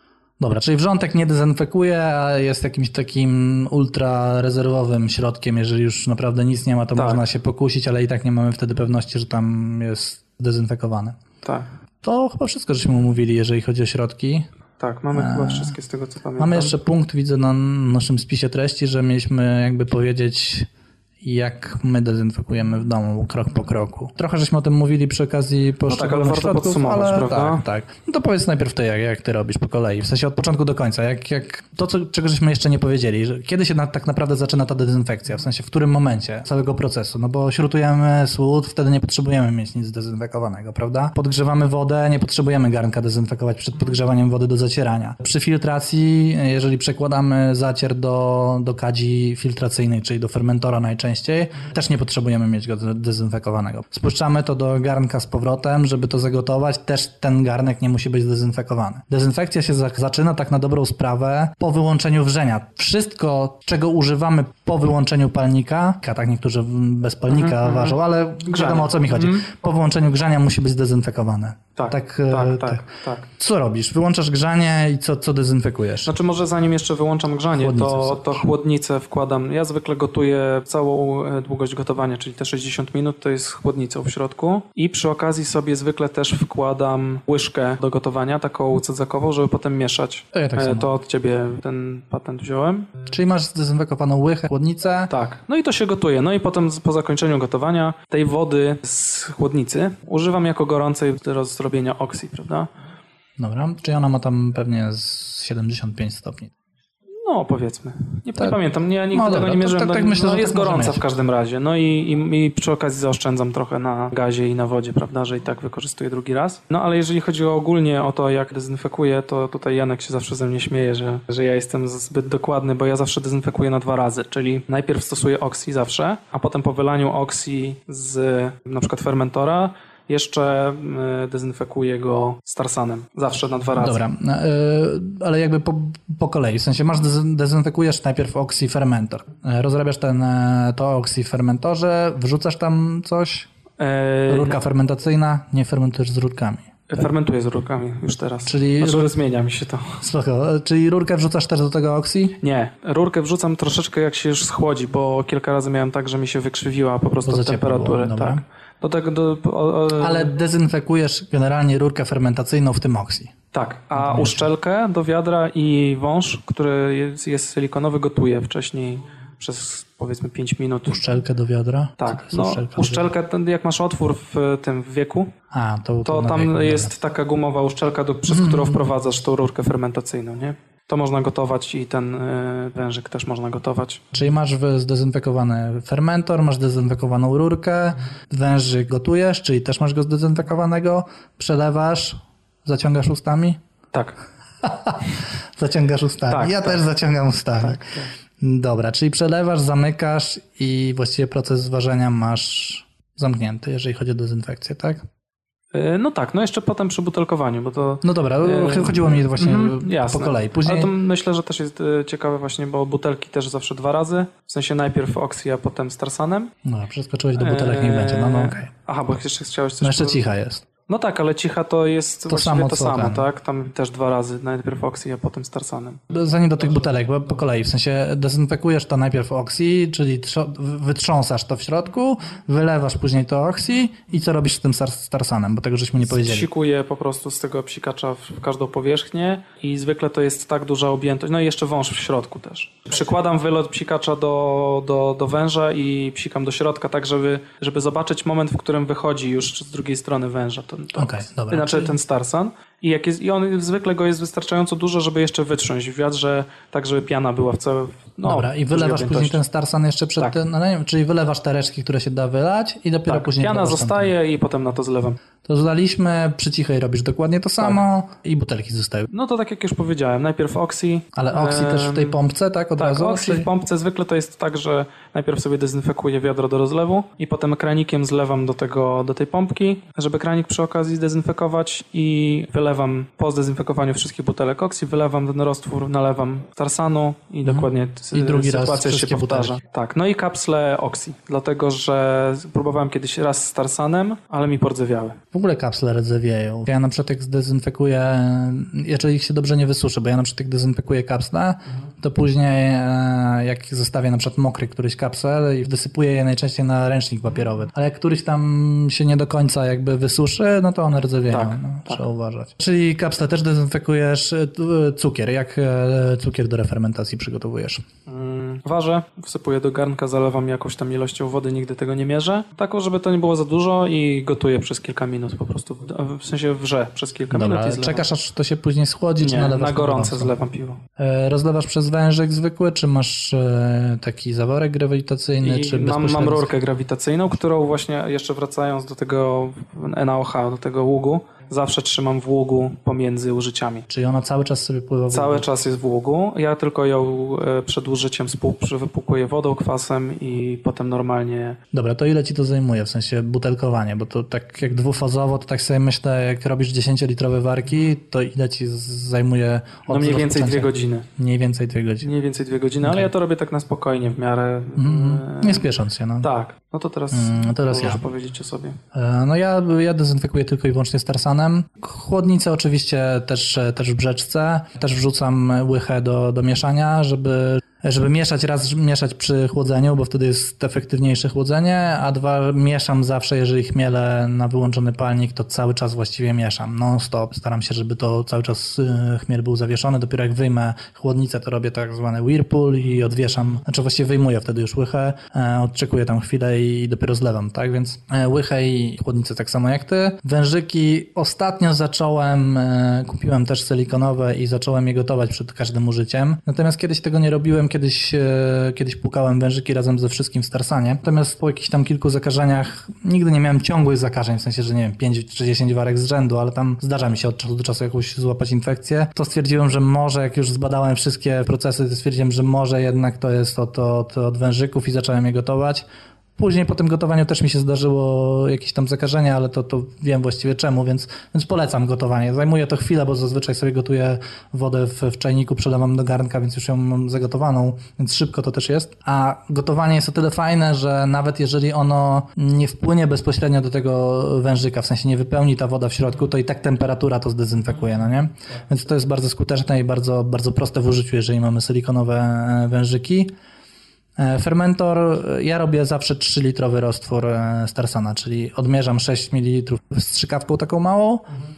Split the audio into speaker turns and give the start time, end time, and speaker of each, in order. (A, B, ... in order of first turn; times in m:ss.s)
0:00.4-0:11.2 A
0:07.0-0:07.2 B
0:12.0-0:14.5 A
0:14.8-0:16.7 B
0:15.1-0:15.7 A
0:16.4-0:20.7 A
0:21.2-1:12.8 A
0:25.9-0:27.6 B
1:07.3-1:09.5 B
1:11.8-1:13.3 B
1:13.4-1:16.1 A
1:16.1-1:32.9 B
1:17.6-1:18.5 A
1:30.3-1:30.9 A
1:33.1-1:35.1 A
1:35.1-1:42.7 B
1:43.4-1:46.5 A
1:47.2-2:14.0 B
1:49.1-1:51.0 A
2:13.8-2:23.5 A
2:23.8-2:24.6 B
2:24.3-2:26.7 A
2:26.9-2:30.0 B
2:28.5-2:29.1 A
2:30.0-2:32.4 A
2:32.4-2:40.3 B
2:37.3-2:38.4 A
2:40.0-2:43.4 A
2:43.5-2:51.0 B
2:44.0-2:44.5 A
2:50.9-2:53.1 A
2:52.0-2:55.3 B
2:55.5-2:56.9 A
2:56.0-3:04.0 B
2:58.3-2:58.8 A
3:04.1-3:13.6 A
3:14.6-3:17.8 A
3:16.3-3:16.8 B
3:17.6-3:18.1 B
3:18.4-3:25.0 A
3:25.7-3:36.5 B
3:28.0-3:30.9 A
3:36.6-3:38.7 A
3:37.4-3:40.2 B
3:39.8-3:40.7 A
3:40.8-3:46.0 B
3:42.3-3:43.2 A
3:46.1-3:56.5 A
3:56.1-4:19.4 B
4:11.0-4:12.0 A
4:18.2-4:24.1 A
4:23.1-4:25.2 B
4:25.4-4:29.1 A
4:29.1-4:32.2 B
4:31.2-4:33.5 A
4:32.8-4:55.2 B
4:47.5-4:49.6 A
4:55.3-5:17.8 A
5:11.3-5:12.0 B
5:18.1-5:28.0 B
5:27.3-5:30.3 A
5:29.2-5:30.8 B
5:31.0-5:36.5 A
5:35.4-5:43.9 B
5:43.9-5:45.5 A
5:45.1-5:51.6 B
5:51.7-6:02.1 A
5:59.9-6:01.1 B
6:02.0-6:05.6 B
6:02.8-6:03.1 A
6:04.8-6:06.3 A
6:06.2-6:08.8 B
6:07.1-6:08.0 A
6:08.9-7:05.8 A
7:06.4-7:33.3 A
7:34.2-7:41.3 A